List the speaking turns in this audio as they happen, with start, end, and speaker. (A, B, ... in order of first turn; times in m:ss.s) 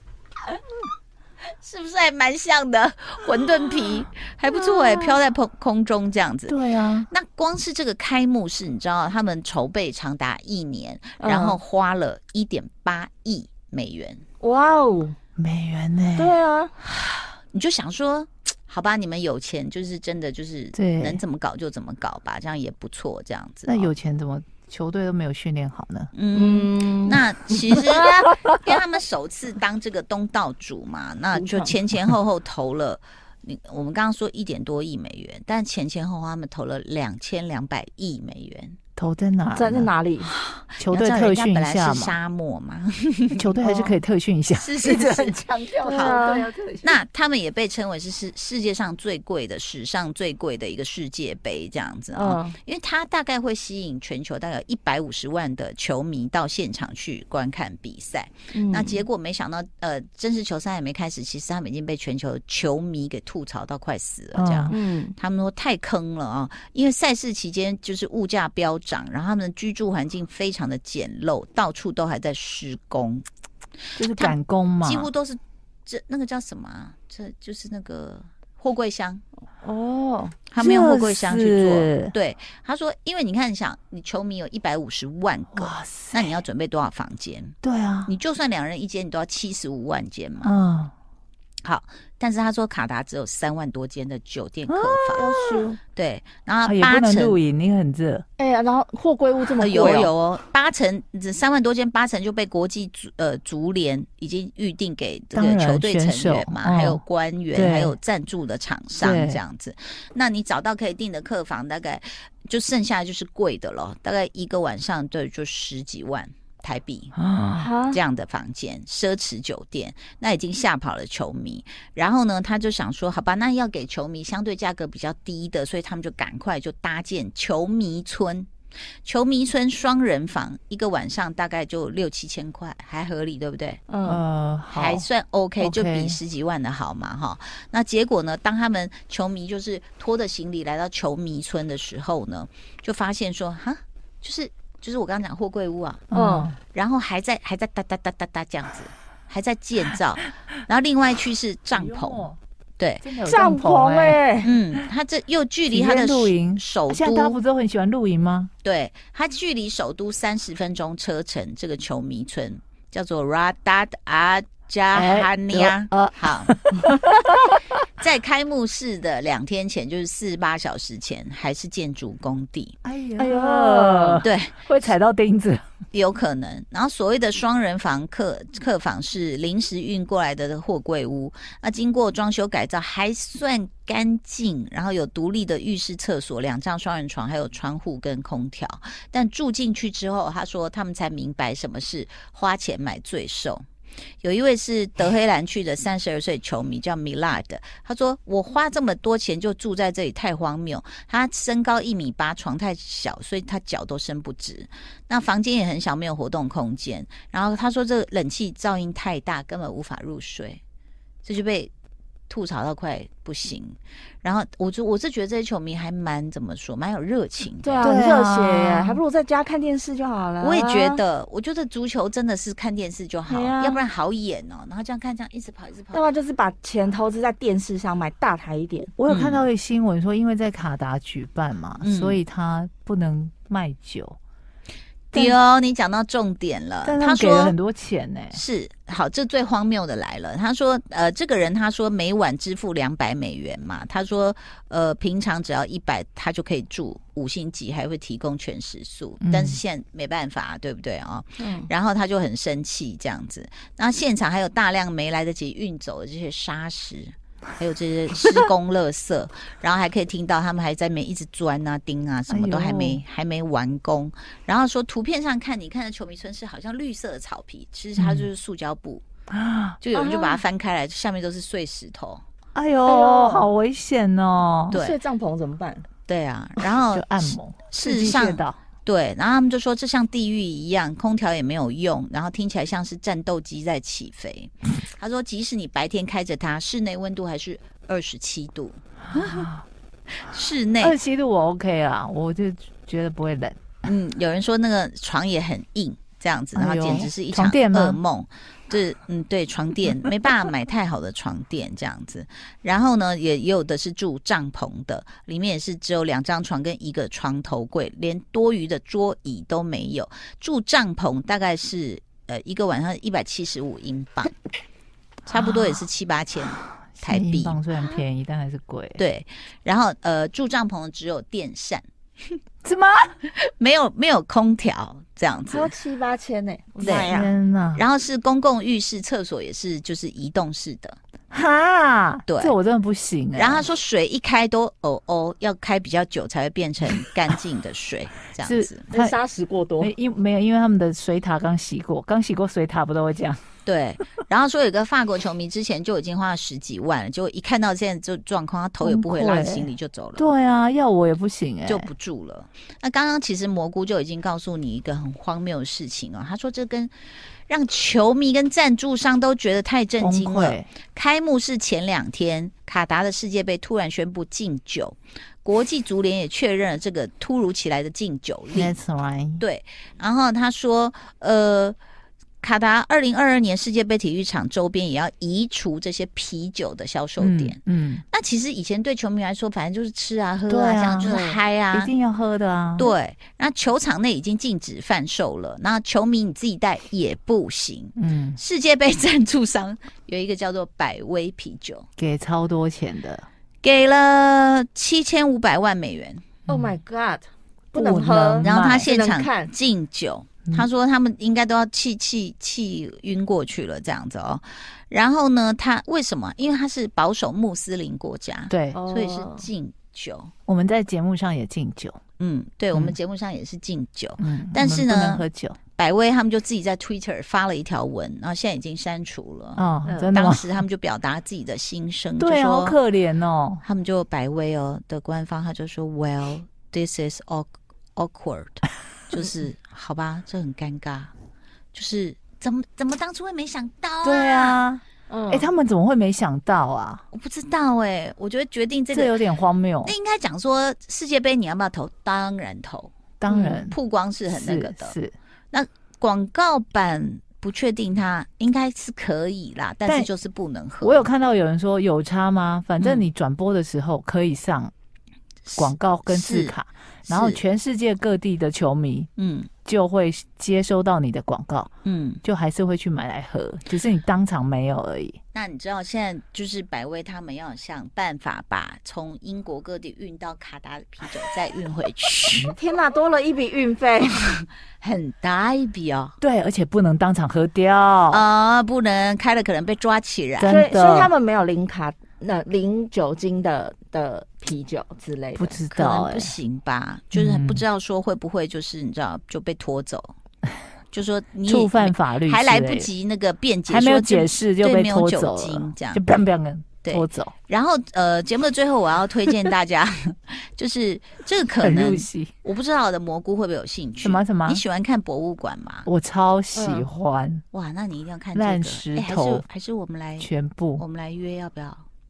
0:01.6-0:06.6 A
0:06.5-0:07.1 B
0:07.1-0:14.2 A
0:11.2-0:11.6 C
0:14.4-0:15.2 C
0:15.4-0:16.4 B
0:16.2-0:16.7 C
0:16.8-0:23.9 A
0:20.7-0:21.2 B
0:23.6-0:26.1 B
0:26.1-0:38.8 A
0:26.3-0:28.0 C
0:31.4-0:31.7 C
0:39.0-0:39.9 B
0:39.5-0:40.3 C
0:40.3-0:43.5 A
0:40.8-0:42.1 B
0:43.4-0:47.0 B
0:43.6-0:43.9 C
0:44.5-0:45.4 A
0:45.8-0:46.5 C
0:46.8-1:13.2 A
0:52.1-0:52.6 C
0:58.5-0:59.0 C
1:04.3-1:04.8 B
1:04.7-1:05.1 C
1:14.0-1:15.1 B
1:14.1-1:19.2 A
1:19.6-1:20.4 C
1:20.5-1:30.5 A
1:20.6-1:22.1 B
1:25.5-1:26.3 B
1:27.6-1:28.1 B
1:30.4-1:30.9 B
1:31.6-1:35.3 A
1:34.7-1:35.8 B
1:35.1-1:35.8 C
1:35.9-1:37.4 A
1:36.6-1:38.2 B
1:38.4-1:40.1 C
1:39.6-1:57.1 A
1:45.3-1:47.0 B
1:47.5-1:48.0 B
1:49.0-1:49.4 B
1:57.1-1:57.7 B
1:57.6-1:58.0 C
1:57.9-2:08.5 A
2:09.0-2:13.8 A
2:13.9-2:14.2 C
2:14.0-2:15.0 B
2:14.7-2:26.0 A
2:15.6-2:16.2 B
2:26.1-2:26.6 B
2:26.1-2:26.5 C
2:26.7-2:32.3 A
2:31.7-2:32.4 B
2:32.8-2:33.0 A
2:33.0-2:34.2 B
2:33.2-2:34.5 C
2:34.4-2:37.4 A
2:35.7-2:38.5 B
2:38.6-2:46.6 A
2:44.9-2:47.6 B
2:48.0-2:52.8 A
2:52.8-2:55.6 B
2:53.2-2:54.2 C
2:54.2-2:54.6 A
2:55.9-3:13.6 A
3:14.2-3:30.6 A
3:31.2-3:31.7 A
3:32.3-3:37.9 A
3:37.6-3:41.0 C
3:37.8-3:39.0 B
3:40.4-3:46.0 A
3:43.3-3:43.8 C
3:45.9-3:48.9 C
3:49.0-3:54.2 B
3:49.1-3:49.4 A
3:51.8-3:52.2 A
3:55.1-3:57.6 A
3:56.8-3:58.4 B
3:58.3-4:29.0 A
4:09.2-4:09.6 B
4:11.4-4:11.7 C
4:22.3-4:23.0 B
4:28.0-4:28.3 B
4:29.3-4:29.8 B
4:29.8-4:32.2 A
4:29.9-4:30.4 C
4:32.5-4:34.8 B
4:32.8-4:33.5 C
4:34.7-4:35.8 C
4:34.7-4:35.0 A
4:36.0-4:49.5 A
4:36.9-4:38.6 B
4:49.1-4:49.6 B
4:50.2-4:50.9 A
4:50.8-4:53.6 B
4:53.8-5:14.3 A
4:56.5-4:58.0 B
5:15.3-5:17.6 A
5:15.3-5:15.8 B
5:17.0-5:19.0 B
5:19.0-5:22.3 A
5:22.6-5:23.1 B
5:23.2-5:25.7 A
5:25.5-5:27.3 C
5:26.8-5:27.2 A
5:26.8-5:27.8 B
5:27.7-5:31.0 A
5:31.3-5:33.6 B
5:32.3-5:32.5 A
5:33.3-5:38.8 A
5:38.4-5:39.1 B
5:38.9-5:39.9 C
5:39.8-5:43.4 B
5:43.6-5:50.3 A
5:48.8-5:51.9 B
5:51.6-5:56.9 A
5:57.5-6:08.8 A
6:00.0-6:00.7 B
6:08.5-6:09.4 B
6:09.4-6:11.8 A
6:12.4-6:17.6 A
6:17.2-6:18.0 B
6:18.1-6:21.9 A
6:20.5-6:21.2 B
6:21.0-6:21.4 C
6:21.7-6:22.9 B
6:22.8-6:31.8 A
6:28.0-6:28.4 B
6:32.0-6:33.3 B
6:33.6-6:36.3 A
6:36.5-6:39.5 C
6:36.5-6:36.7 B
6:37.7-6:38.9 B
6:38.4-6:50.3 A
6:48.5-6:48.8 B
6:48.7-6:49.5 C
6:50.5-6:52.0 B
6:52.2-6:55.2 A
6:54.2-6:55.6 B
6:55.8-7:02.8 A
6:59.6-7:00.6 B
6:59.8-7:00.1 C
7:02.2-7:03.6 B
7:03.6-7:11.1 A
7:11.7-7:14.6 A
7:14.0-7:17.0 B
7:15.1-7:15.5 C
7:17.1-7:19.2 A
7:18.9-7:19.9 B
7:19.8-7:22.9 A
7:23.2-7:23.8 B
7:23.3-7:23.6 C
7:23.7-7:25.0 A
7:24.3-7:25.1 B
7:25.5-7:31.0 A
7:30.8-7:34.7 B
7:35.4-7:36.5 A
7:35.6-7:39.1 B
7:37.1-7:37.4 A
7:39.2-7:39.5 A
7:39.6-7:41.7 B
7:41.8-7:42.2 A
7:42.2-7:45.2 B
7:45.3-7:52.5 A
7:52.4-7:54.4 C
7:54.8-7:56.2 A
7:56.2-7:58.2 B
7:58.1-8:00.6 A
8:00.4-8:01.1 B
8:00.4-8:05.6 C
8:05.4-8:06.3 B
8:05.7-8:10.1 A
8:07.1-8:07.6 B
8:10.9-8:16.0 A
8:11.4-8:12.9 B
8:13.7-8:17.3 B
8:16.8-8:25.9 A
8:21.6-8:22.3 B
8:24.0-8:24.6 B
8:25.8-8:27.4 B
8:26.5-8:26.8 C
8:27.5-8:31.8 A
8:28.3-8:29.4 B
8:30.2-8:30.8 B